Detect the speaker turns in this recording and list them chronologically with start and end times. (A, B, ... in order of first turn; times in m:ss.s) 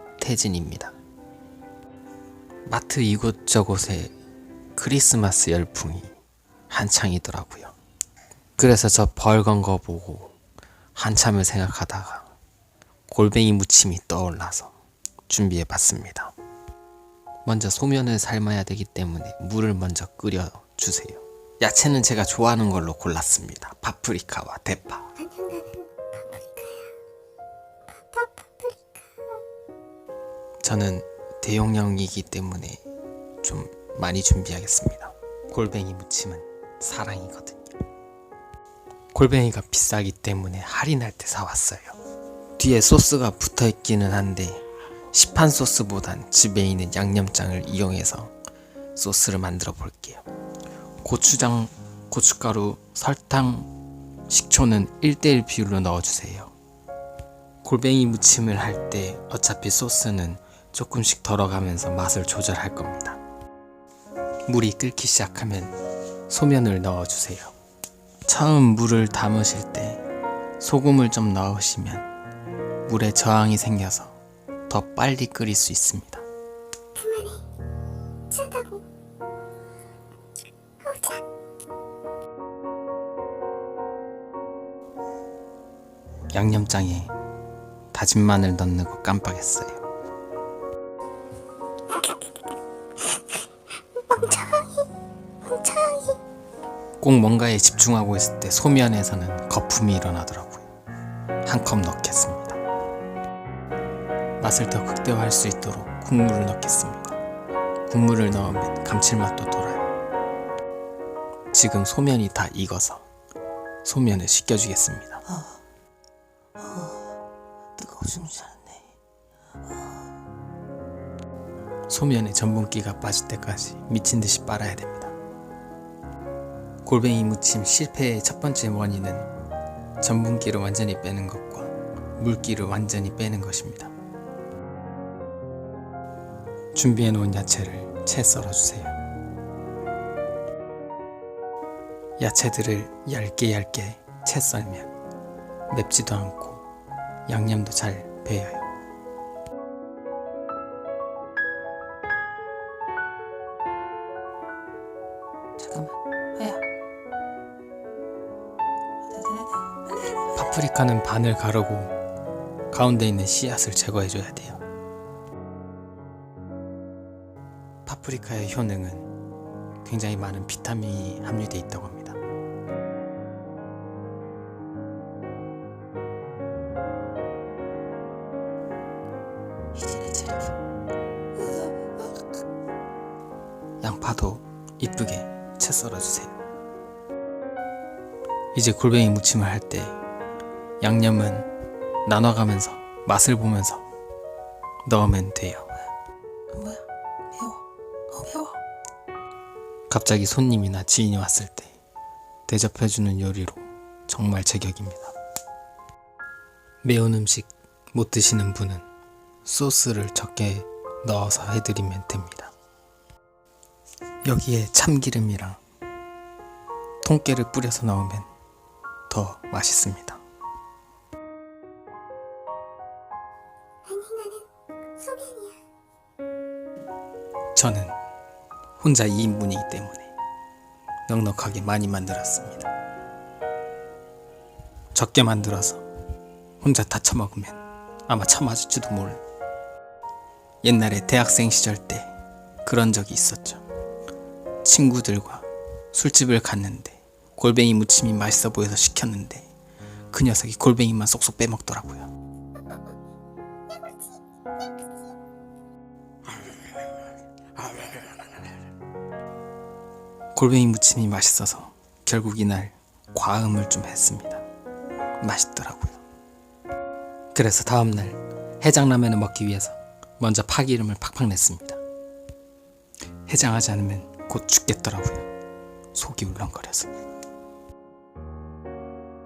0:00.2-0:00.9 A
0:02.6-0:04.1 A
0:04.8-0:06.1 A
0:06.7-0:07.7 A
0:08.6-0:10.3 A
0:10.9-0:12.3 A
0:13.1-0:14.7 A
0:15.3-0:16.3 A
0:17.4-0:25.1 A
0:30.6-0:32.8 A
0:33.4-0:37.7 A
0:39.1-0:42.0 A
0:42.6-0:48.3 A
0:48.9-0:50.2 A
0:51.0-0:53.7 A
0:54.3-0:56.5 A
0:57.6-1:03.2 A
1:04.5-1:05.8 A
1:06.3-1:07.5 A
1:08.2-1:10.0 A
1:10.6-1:12.1 A
1:12.9-1:14.2 A
1:14.7-1:16.2 A
1:26.3-1:27.1 A
1:27.9-1:29.8 A
1:35.7-1:36.0 B
1:37.0-1:40.6 A
1:41.4-1:42.6 A
1:44.4-1:47.2 A
1:47.9-1:49.8 A
1:51.5-1:53.0 A
1:53.8-1:55.2 A
1:56.7-1:57.0 B
1:57.8-1:58.8 B
2:01.9-2:05.1 A
2:06.8-2:09.3 A
2:10.0-2:13.9 A
2:16.7-2:19.0 A
2:22.2-2:24.9 A
2:25.7-2:26.6 A
2:27.3-2:28.7 A
2:35.6-2:36.6 B
2:39.2-2:39.8 B
2:40.3-2:41.9 A
2:42.7-2:44.6 A
2:47.8-2:49.1 A
2:49.8-2:52.2 A
3:00.0-3:00.3 B
3:03.8-3:06.4 A
3:08.5-3:10.0 A
3:10.8-3:11.5 A
3:12.0-3:13.8 A
3:14.8-3:15.8 A
3:18.2-3:18.5 B
3:18.2-3:18.5 A
3:19.9-3:21.8 A
3:22.5-3:25.1 A
3:26.8-3:28.8 A
3:29.4-3:32.5 A
3:34.2-3:35.6 A
3:37.0-3:38.3 A
3:39.1-3:40.2 A
3:47.5-3:47.9 A
3:48.8-3:50.1 A
3:51.1-3:52.7 A
3:54.9-3:55.8 A
3:56.6-3:59.2 A
4:00.6-4:02.1 A
4:02.6-4:03.6 A
4:04.6-4:09.5 A
4:10.1-4:12.1 A
4:20.3-4:24.4 A
4:25.2-4:26.0 A
4:27.3-4:31.8 A
4:33.3-4:35.3 A
4:35.9-4:36.9 A